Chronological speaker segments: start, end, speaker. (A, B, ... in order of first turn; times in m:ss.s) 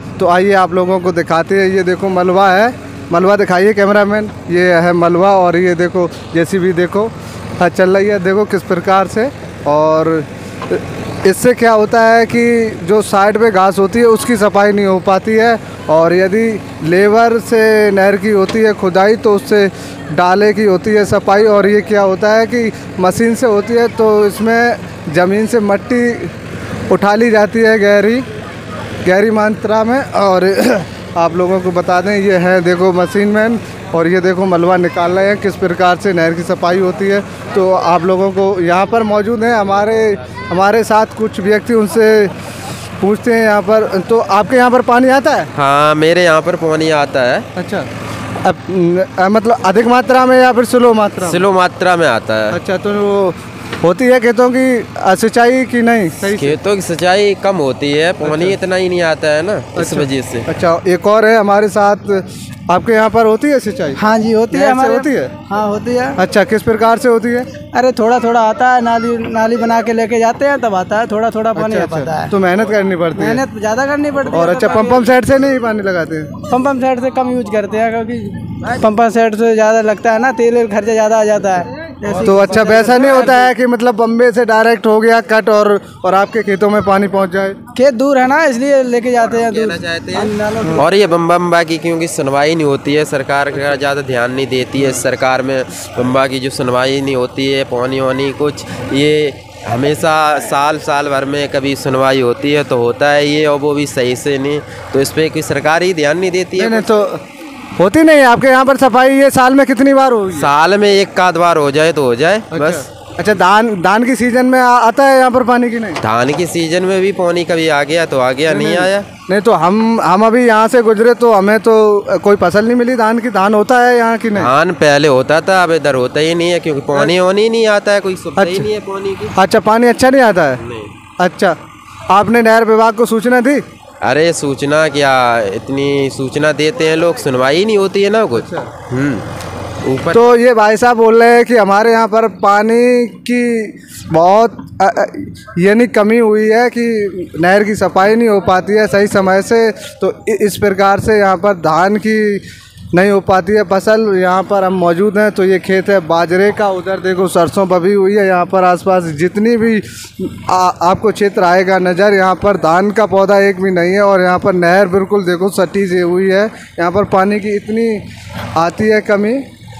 0:00.2-0:26.3 A
0:26.9-0:28.2 A
0:29.0-0:42.3 A
0:43.0-0:45.5 A
0:45.5-0:47.4 B
0:47.6-0:47.9 A
0:48.4-0:51.4 A
0:51.2-0:52.6 B
0:52.5-0:56.6 A
0:56.2-1:00.5 B
0:58.2-0:58.6 A
0:59.8-1:05.4 A
1:04.0-1:06.2 C
1:06.2-1:07.5 A
1:07.6-1:12.3 C
1:11.5-1:13.4 A
1:13.1-1:15.1 C
1:14.3-1:16.4 A
1:16.4-1:23.5 C
1:22.2-1:27.6 A
1:27.7-1:31.0 C
1:29.2-1:46.9 B
1:46.6-1:47.2 A
1:47.8-1:50.5 A
1:50.3-1:52.9 B
1:52.5-1:56.0 A
1:56.0-1:59.0 B
1:58.5-2:04.5 A
2:04.3-2:09.3 B
2:08.4-2:08.7 A
2:09.4-2:10.6 A
2:10.6-2:10.9 B
2:11.2-2:11.6 A
2:12.1-2:13.6 A
2:14.0-2:19.2 B
2:18.3-2:18.7 A
2:19.8-2:20.3 B
2:20.1-2:49.4 A